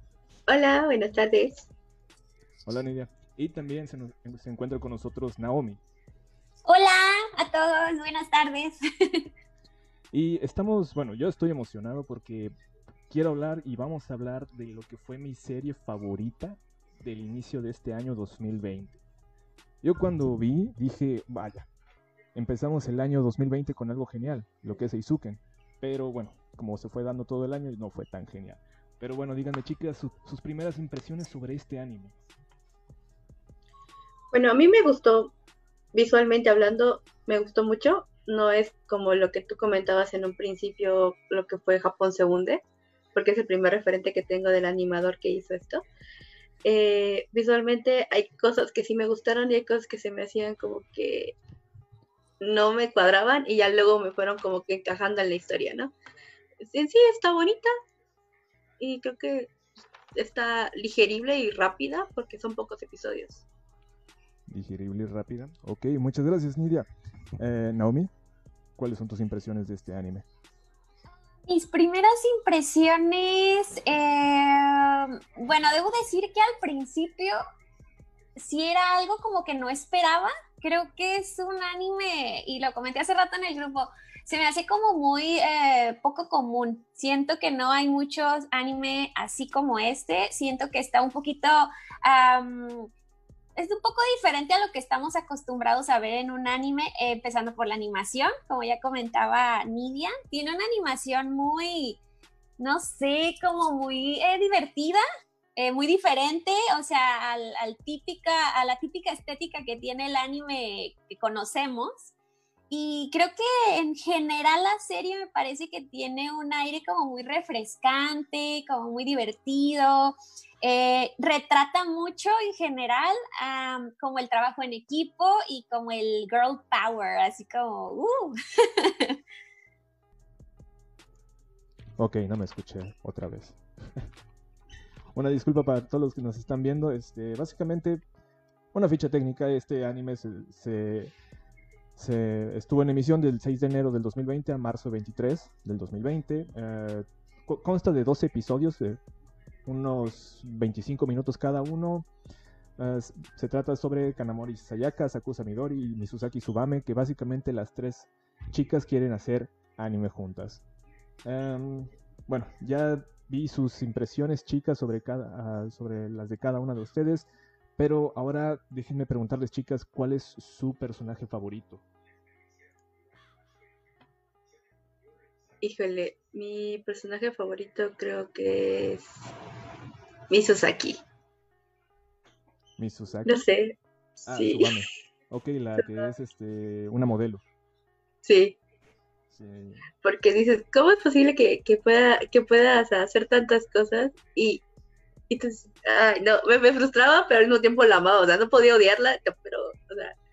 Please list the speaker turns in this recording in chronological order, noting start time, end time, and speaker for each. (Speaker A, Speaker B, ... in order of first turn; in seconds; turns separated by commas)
Speaker A: 0.5-1.7, Speaker B: 2.6-5.8, Speaker C: 6.7-9.3, Speaker B: 10.1-12.5, Speaker B: 13.1-19.0, Speaker B: 19.8-21.7, Speaker B: 22.3-32.2, Speaker A: 34.3-35.3, Speaker A: 35.9-42.6, Speaker A: 43.1-45.8, Speaker A: 46.6-51.4, Speaker A: 52.4-55.9, Speaker A: 56.6-57.7, Speaker A: 58.8-59.5, Speaker A: 60.1-63.4, Speaker B: 64.5-66.8, Speaker B: 67.4-68.1, Speaker B: 68.8-70.2, Speaker C: 71.5-77.4, Speaker C: 78.3-92.9, Speaker C: 93.5-102.0, Speaker C: 102.6-105.0, Speaker C: 105.5-112.1, Speaker C: 112.7-129.2, Speaker B: 132.0-134.1, Speaker B: 135.1-138.0, Speaker B: 138.7-141.1, Speaker B: 142.0-149.0, Speaker B: 149.7-152.1, Speaker B: 152.8-160.6, Speaker B: 161.2-171.8, Speaker A: 175.6-179.3, Speaker A: 180.3-181.0, Speaker B: 182.8-183.4, Speaker A: 183.2-184.8, Speaker B: 184.3-187.4, Speaker A: 185.8-186.1, Speaker A: 188.2-188.6, Speaker B: 189.3-189.9, Speaker A: 190.0-194.6, Speaker A: 195.3-200.1